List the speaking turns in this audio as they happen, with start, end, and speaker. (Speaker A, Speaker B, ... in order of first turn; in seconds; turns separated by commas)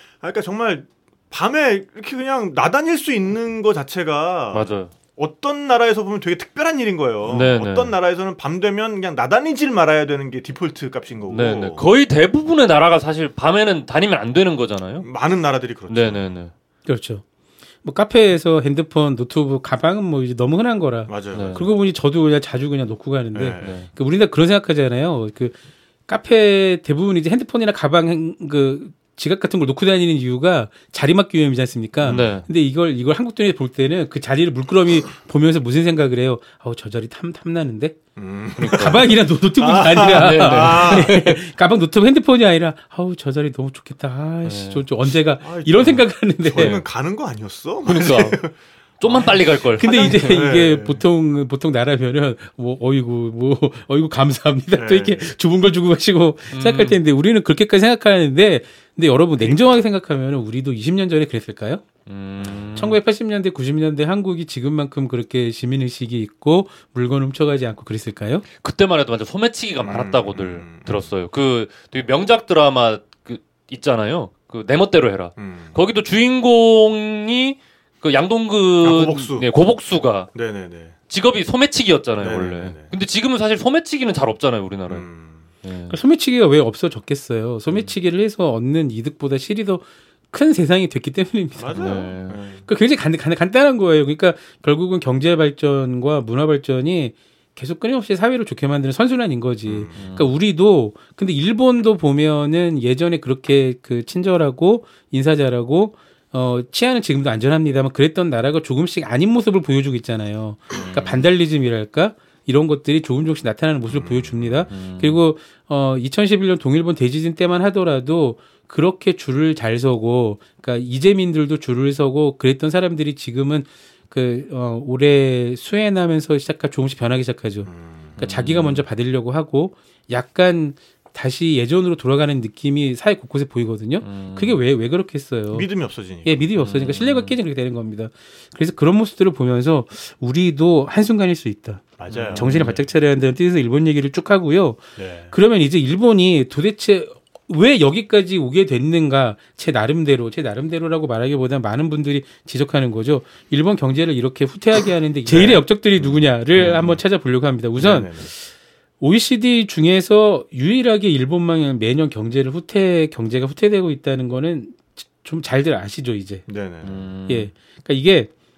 Speaker A: 0.2-11.8, Speaker B: 4.5-4.9, Speaker B: 7.3-7.9, Speaker B: 11.3-15.1, Speaker A: 15.0-16.4, Speaker B: 15.9-16.5, Speaker C: 16.9-17.2, Speaker C: 17.8-25.5, Speaker A: 21.1-21.6, Speaker B: 21.3-21.6, Speaker A: 23.3-23.8, Speaker B: 23.6-23.9, Speaker C: 26.1-38.0, Speaker A: 32.0-32.3, Speaker B: 32.1-32.4, Speaker A: 38.1-41.1, Speaker C: 38.6-46.8, Speaker B: 38.6-39.0, Speaker B: 40.0-41.4, Speaker B: 44.4-44.8, Speaker A: 45.4-51.0, Speaker B: 46.5-46.8, Speaker B: 47.8-50.4, Speaker C: 49.8-61.8, Speaker A: 54.7-55.3, Speaker B: 56.5-57.0, Speaker A: 59.4-59.8, Speaker B: 62.1-63.0, Speaker C: 62.8-68.4, Speaker B: 68.6-80.3, Speaker A: 69.8-71.0, Speaker A: 75.4-75.7, Speaker A: 78.8-79.5, Speaker A: 80.3-80.9, Speaker B: 81.1-85.0, Speaker A: 82.2-82.9, Speaker A: 84.9-85.4, Speaker B: 85.6-85.9, Speaker C: 85.9-135.7, Speaker A: 91.6-92.6, Speaker B: 91.8-92.4, Speaker A: 99.7-100.0, Speaker B: 100.0-100.3, Speaker B: 110.8-111.1, Speaker A: 113.9-114.7, Speaker B: 114.7-115.2, Speaker A: 127.7-128.2, Speaker B: 128.2-128.8, Speaker B: 134.0-134.6, Speaker A: 135.5-136.4, Speaker C: 136.2-158.5, Speaker B: 136.6-137.3, Speaker A: 142.0-142.8, Speaker B: 142.1-142.7, Speaker A: 145.0-145.3, Speaker A: 155.3-157.0, Speaker A: 157.8-158.3, Speaker C: 159.0-166.4, Speaker A: 166.5-167.1, Speaker B: 166.8-167.5, Speaker C: 167.3-168.3